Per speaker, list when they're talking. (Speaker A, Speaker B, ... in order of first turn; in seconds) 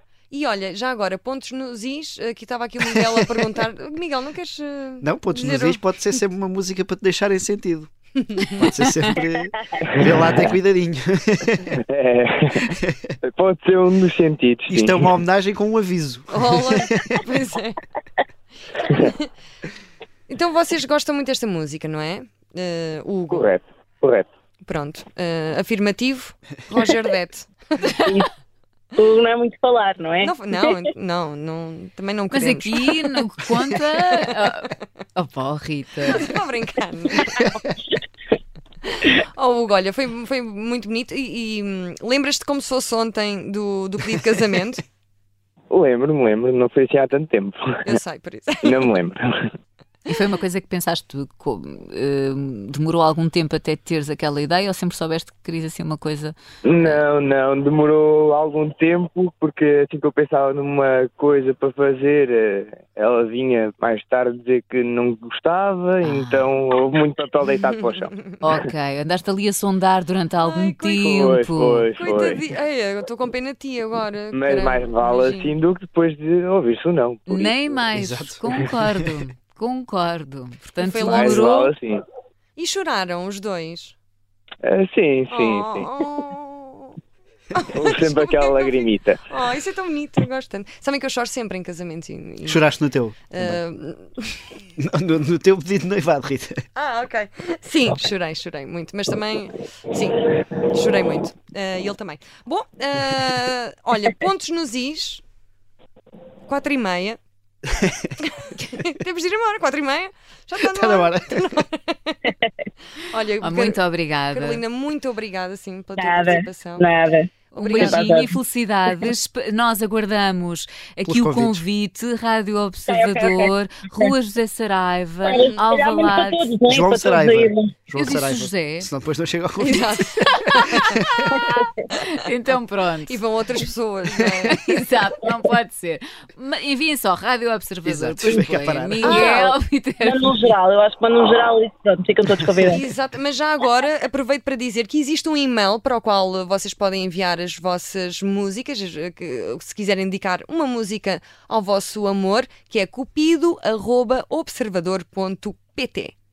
Speaker A: 0.3-5.7, 20.3-23.5, 24.6-27.5, 30.2-33.3, 36.0-37.3, 39.3-44.8, 47.8-49.0, 67.5-68.3, 70.5-71.0, 71.9-75.5, 80.8-81.5, 82.5-84.0, 85.3-86.9, 87.5-92.5, 96.8-100.2, 100.7-105.2, 106.5-107.2, 108.3-112.2, 113.1-113.8, 114.3-116.8, 117.6-118.0, 129.6-130.1, 133.1-134.6, 139.0-139.3, 142.7-156.1
Speaker B: 5.0-11.7, 12.8-13.1, 14.7-17.2, 77.9-79.2, 92.4-93.6, 94.8-96.7, 107.7-108.1, 110.6-111.5, 121.0-121.6, 126.7-129.9, 130.8-131.0, 137.8-139.2
Speaker C: 9.2-9.4, 28.0-28.3, 28.9-30.9, 116.0-118.4, 122.9-124.1, 125.2-127.7, 131.3-131.8, 140.0-142.8
Speaker D: 11.9-15.1, 23.3-24.3, 45.7-48.0, 48.6-49.5, 56.6-68.2, 71.0-72.5, 74.3-77.8, 81.0-82.0, 84.6-86.0, 87.7-89.6
Speaker E: 27.8-28.2, 32.3-36.3, 50.1-57.0, 66.0-66.5, 68.4-71.9, 77.3-81.7, 113.4-114.6, 117.6-126.5, 128.0-128.9, 129.6-133.6, 134.3-140.4